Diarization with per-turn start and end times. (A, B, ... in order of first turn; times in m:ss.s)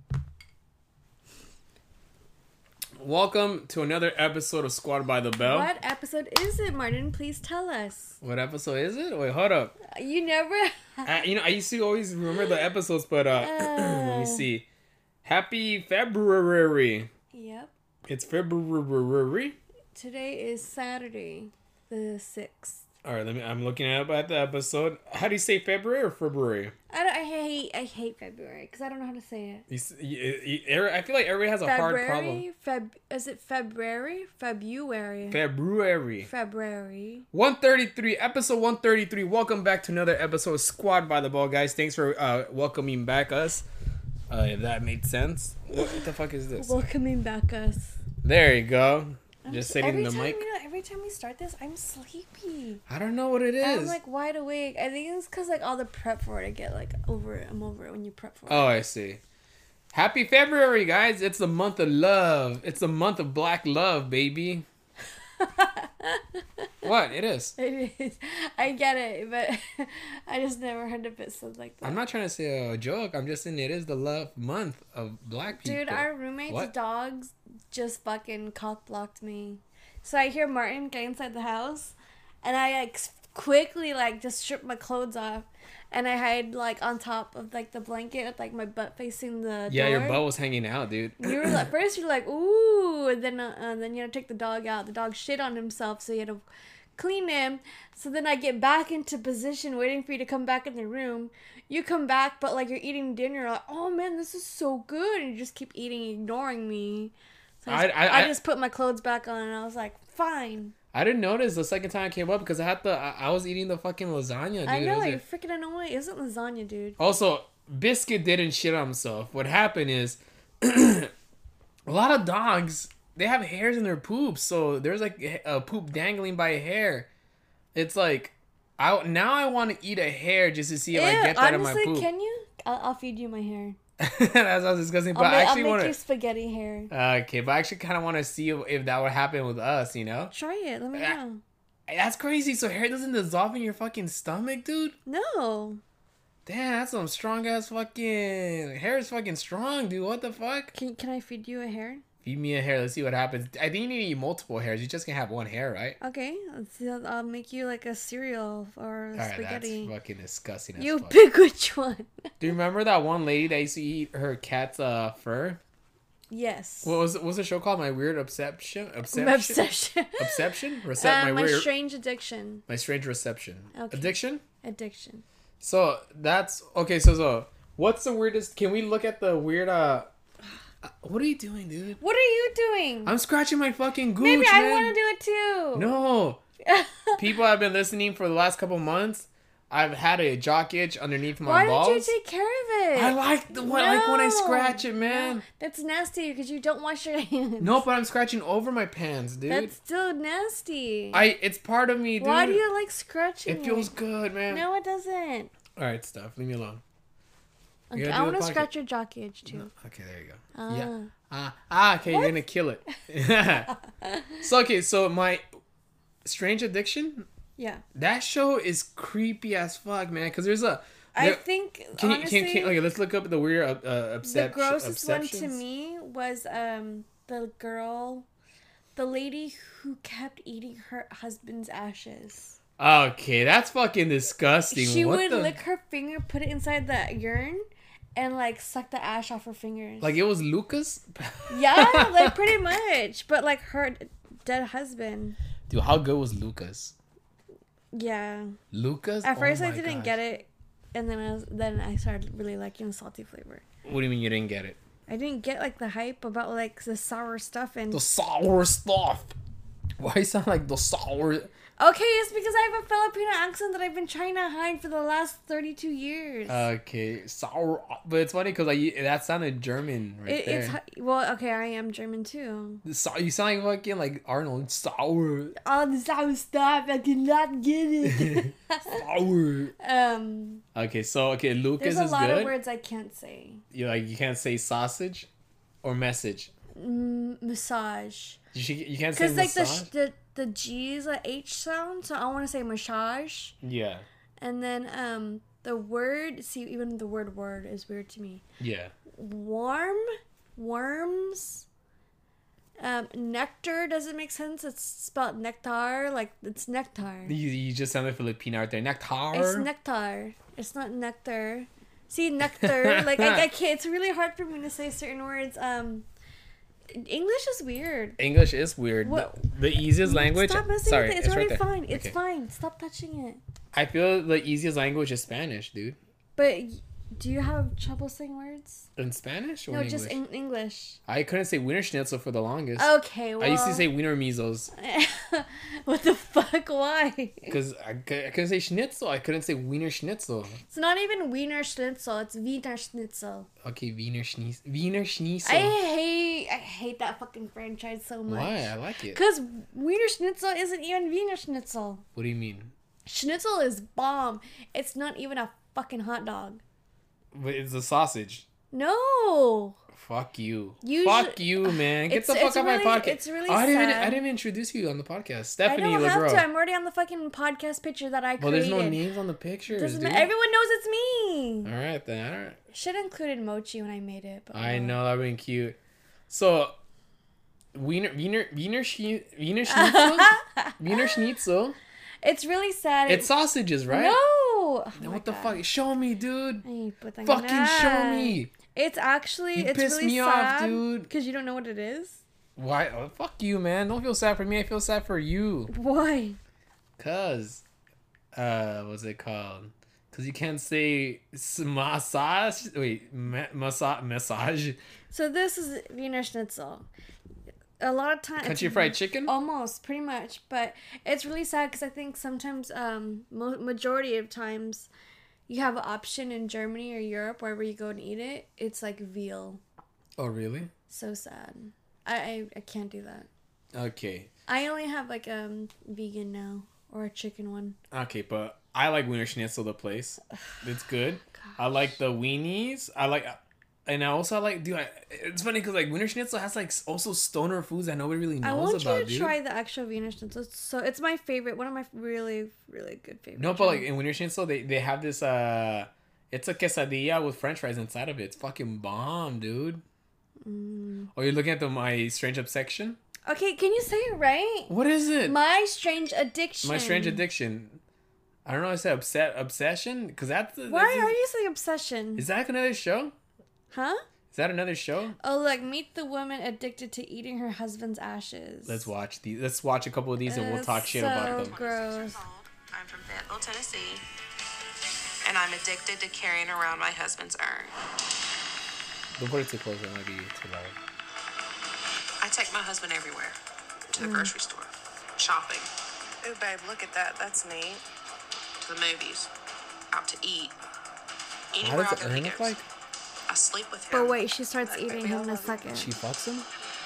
0:03.0-0:05.7 A
0:05.4-0:08.2 B
0:08.2-0:09.7 A
0:09.8-0:11.1 B
0:11.0-0:14.7 A
0:13.4-0:14.4 B
0:15.2-0:17.1 A
0:17.3-0:17.7 B
0:18.1-0:19.6 A
0:19.9-0:22.8 B
0:23.0-0:26.7 A
0:26.9-0:29.6 B
0:29.7-0:32.4 A
0:31.6-0:35.4 B
0:35.3-0:36.3 A
0:36.2-0:37.3 B
0:37.3-0:43.6 A
0:44.3-0:46.8 A
0:45.7-0:46.1 B
0:46.6-0:48.0 B
0:48.2-0:50.4 A
0:49.4-0:52.8 B
0:52.9-0:54.0 A
0:53.6-0:58.7 B
0:58.5-0:59.2 A
0:59.9-1:04.7 A
1:05.4-1:06.7 B
1:06.8-1:07.5 A
1:07.6-1:12.0 B
1:11.8-1:16.7 A
1:15.6-1:30.2 B
1:29.7-1:31.7 A
1:31.2-1:36.4 B
1:37.0-1:50.7 B
1:47.7-1:48.3 A
1:50.9-1:55.2 A
1:54.6-1:57.0 B
1:57.0-2:01.1 A
2:01.8-2:07.1 A
2:07.7-2:12.1 A
2:10.9-2:13.8 B
2:14.0-2:16.0 A
2:15.1-2:16.9 B
2:16.9-2:20.3 A
2:20.3-2:21.4 B
2:21.9-2:25.0 A
2:25.0-2:25.8 B
2:26.4-2:30.7 A
2:30.7-2:32.0 B
2:32.2-2:36.0 A
2:36.0-2:39.9 B
2:39.1-2:41.1 A
2:40.8-2:42.3 B
2:42.4-2:45.6 A
2:46.3-2:47.0 B
2:46.8-2:49.6 A
2:49.1-2:50.4 B
2:50.2-2:51.7 A
2:51.0-2:52.6 B
2:52.7-2:54.4 A
2:53.7-2:55.2 B
2:55.6-3:00.1 A
3:00.8-3:02.0 A
3:02.0-3:03.1 B
3:03.0-3:05.0 A
3:04.2-3:05.9 B
3:05.7-3:06.4 A
3:06.6-3:07.2 B
3:07.2-3:12.1 A
3:11.4-3:17.8 B
3:12.9-3:15.4 A
3:17.6-3:19.7 A
3:19.4-3:21.2 B
3:21.1-3:22.6 A
3:22.2-3:23.9 B
3:23.5-3:24.6 A
3:24.5-3:25.5 B
3:25.8-3:26.8 A
3:27.9-3:29.7 B
3:27.9-3:28.7 A
3:29.5-3:33.7 A
3:30.5-3:31.1 B
3:32.0-3:32.4 B
3:33.7-3:34.4 B
3:34.4-3:35.4 A
3:36.2-3:37.3 A
3:37.6-3:37.8 B
3:37.9-3:41.4 A
3:41.1-3:42.8 B
3:42.0-3:45.6 A
3:44.2-3:48.3 B
3:49.0-3:52.6 B
3:52.8-3:55.5 A
3:54.7-4:00.2 B
4:00.0-4:02.4 A
4:01.5-4:05.4 B
4:05.7-4:06.9 A
4:07.9-4:08.6 B
4:08.7-4:10.2 A
4:09.2-4:13.6 B
4:13.8-4:14.8 A
4:15.1-4:18.0 B
4:17.9-4:19.3 A
4:20.0-4:21.5 A
4:21.8-4:26.7 B
4:26.5-4:30.8 A
4:30.2-4:32.8 B
4:32.8-4:35.5 A
4:35.6-4:39.0 B
4:38.0-4:39.7 A
4:39.8-4:40.6 B
4:40.7-4:42.5 A
4:41.8-4:43.6 B
4:43.7-4:45.3 A
4:45.8-4:46.5 A
4:46.7-4:48.4 B
4:48.5-4:49.9 A
4:49.1-4:53.5 B
4:53.6-4:54.0 A
4:54.4-4:58.4 B
4:58.6-4:58.9 A
4:59.1-5:01.6 B
5:02.8-5:07.3 B
5:07.2-5:09.7 A
5:09.3-5:16.1 B
5:12.6-5:13.4 A
5:16.9-5:18.2 B
5:18.2-5:22.1 A
5:19.0-5:19.4 B
5:20.0-5:23.4 B
5:23.7-5:26.0 A
5:26.4-5:28.9 B
5:29.0-5:30.2 A
5:29.7-5:31.0 B
5:31.1-5:34.7 A
5:32.8-5:33.9 B
5:34.8-5:37.6 B
5:37.5-5:40.6 A
5:40.6-5:43.5 B
5:43.6-5:45.8 A
5:45.4-5:52.0 B
5:48.3-5:49.2 A
5:52.2-5:52.7 A
5:53.0-5:56.6 B
5:57.3-5:58.4 A
5:58.7-5:59.8 B
5:59.9-6:06.4 A
6:00.8-6:04.2 B
6:05.6-6:09.0 B
6:08.4-6:10.3 A
6:09.7-6:11.7 B
6:11.6-6:12.6 A
6:12.7-6:15.0 B
6:14.5-6:15.8 A
6:16.3-6:16.7 A
6:17.7-6:21.8 A
6:19.7-6:21.2 B
6:22.2-6:23.3 B
6:23.1-6:24.2 A
6:23.9-6:25.6 B
6:25.0-6:26.6 A
6:26.6-6:32.2 B
6:27.2-6:28.5 A
6:29.5-6:31.1 A
6:32.6-6:35.7 A
6:35.7-6:36.4 B
6:37.0-6:37.6 A
6:38.3-6:44.8 A
6:45.1-6:46.9 B
6:47.8-6:54.9 B
6:48.4-6:49.3 A
6:55.5-6:59.6 B
7:00.2-7:00.7 A
7:00.9-7:03.3 B
7:03.7-7:04.3 A
7:04.5-7:07.8 B
7:07.9-7:19.4 A
7:18.4-7:23.9 B
7:23.4-7:29.8 A
7:30.4-7:31.1 B
7:31.1-7:33.0 A
7:33.2-7:34.7 B
7:34.7-7:35.4 A
7:35.2-7:37.2 B
7:36.6-7:37.8 A
7:38.4-7:41.1 A
7:40.7-7:42.2 B
7:42.2-7:43.1 A
7:43.7-7:44.0 B
7:44.3-7:45.2 A
7:45.2-7:48.9 B
7:48.6-7:51.5 A
7:50.2-7:52.2 B
7:50.9-7:54.0 C
7:55.2-7:57.7 C
7:59.2-8:00.8 A
8:02.2-8:03.4 C
8:03.9-8:05.7 C
8:04.0-8:04.3 B
8:06.2-8:07.8 C
8:08.6-8:09.3 C
8:09.9-8:10.6 C
8:11.5-8:12.5 C
8:11.6-8:12.6 A
8:13.3-8:15.6 C
8:13.9-8:15.9 B
8:15.7-8:16.5 A